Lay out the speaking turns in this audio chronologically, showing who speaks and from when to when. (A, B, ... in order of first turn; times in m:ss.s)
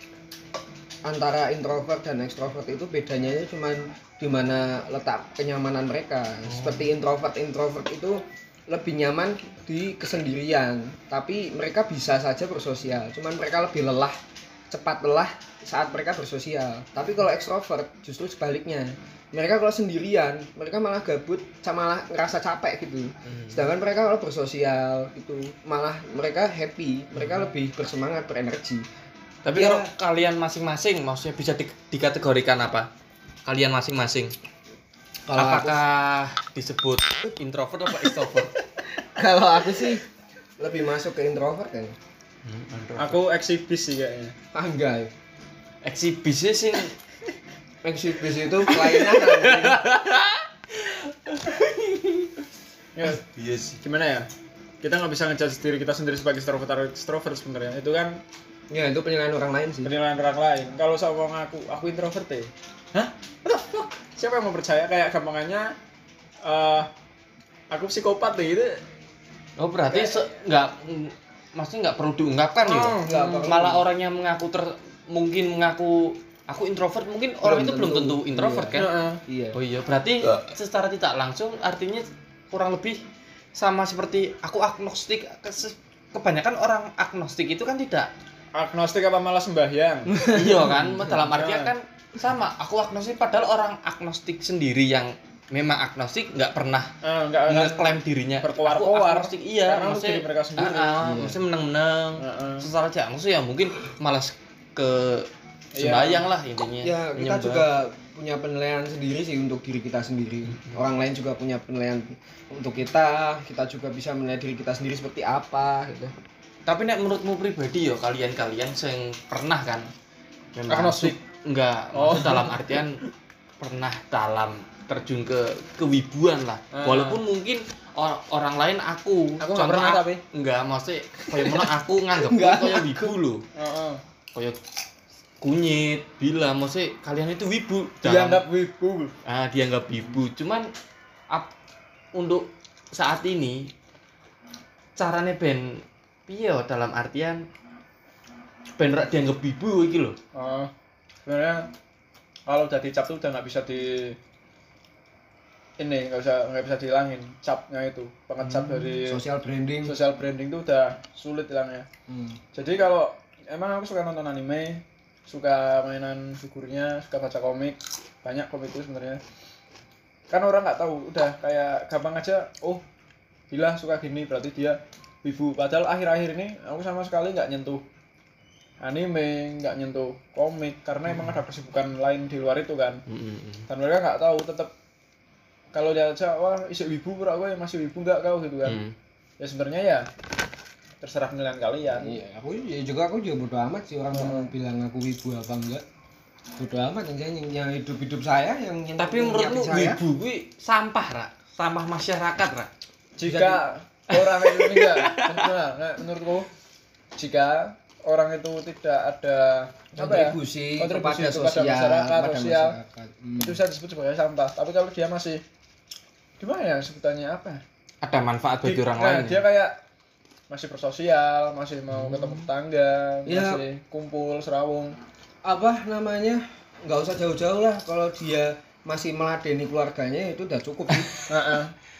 0:01.0-0:14.2 A
0:06.4-0:06.9 B
0:14.7-0:28.8 A
0:23.3-0:23.7 B
0:27.2-0:27.5 B
0:29.4-0:32.9 B
0:29.5-0:29.9 A
0:33.4-0:34.3 B
0:35.2-0:35.8 A
0:35.3-0:38.5 B
0:39.0-0:40.0 A
0:40.6-0:42.0 A
0:42.4-0:43.2 B
0:43.0-0:44.3 C
0:44.5-0:45.1 A
0:45.8-0:46.9 B
0:47.8-0:49.8 A
0:48.6-0:52.3 B
0:53.0-0:53.2 C
0:53.0-0:53.8 B
0:53.8-0:54.3 C
0:54.8-0:58.2 C
0:58.7-0:59.9 A
0:59.8-1:05.7 C
1:06.4-1:06.9 C
1:07.7-1:08.8 C
1:09.6-1:19.0 B
1:09.9-1:10.2 C
1:12.6-1:13.4 C
1:13.0-1:13.8 A
1:17.4-1:19.6 A
1:18.7-1:19.2 C
1:19.5-1:23.0 B
1:23.5-1:28.1 B
1:28.5-1:30.2 C
1:30.1-1:30.8 A
1:30.2-1:36.9 B
1:31.2-1:31.7 C
1:37.0-1:41.1 C
1:37.4-1:47.6 B
1:41.0-1:41.4 A
1:42.2-1:42.7 C
1:45.7-1:46.3 C
1:46.8-1:56.1 A
1:56.6-1:59.9 B
2:00.5-2:03.0 B
2:00.7-2:01.2 C
2:01.9-2:02.8 C
2:03.6-2:13.4 B
2:06.7-2:07.2 C
2:09.4-2:10.2 C
2:11.4-2:13.1 A
2:13.5-2:14.0 C
2:15.4-2:18.4 B
2:18.0-2:19.1 A
2:19.2-2:20.7 B
2:22.1-2:23.7 B
2:25.0-2:27.4 B
2:28.8-2:30.2 B
2:30.3-2:30.7 C
2:31.2-2:31.7 C
2:32.5-2:34.2 C
2:35.8-2:39.2 C
2:38.4-2:38.9 B
2:39.0-2:40.0 A
2:39.8-2:41.9 C
2:42.1-2:42.4 A
2:42.5-2:49.2 C
2:50.3-2:52.8 C
2:53.5-2:57.8 C
2:58.8-3:03.0 C
3:01.1-3:01.4 B
3:03.1-3:03.7 B
3:03.7-3:04.7 C
3:05.7-3:08.8 C
3:08.6-3:08.9 B
3:09.4-3:10.1 C
3:11.0-3:12.2 C
3:11.9-3:15.8 A
3:14.1-3:14.5 C
3:16.6-3:20.0 A
3:19.0-3:22.7 B
3:23.2-3:26.5 C
3:23.2-3:23.6 A
3:24.1-3:25.5 B
3:27.2-3:32.8 C
3:30.0-3:33.6 A
3:33.4-3:35.4 C
3:36.4-3:37.6 C
3:38.0-3:39.4 B
3:38.6-3:39.8 C
3:40.5-3:45.0 C
3:41.9-3:42.5 B
3:43.2-3:43.6 A
3:45.4-3:51.2 A
3:51.3-3:51.7 C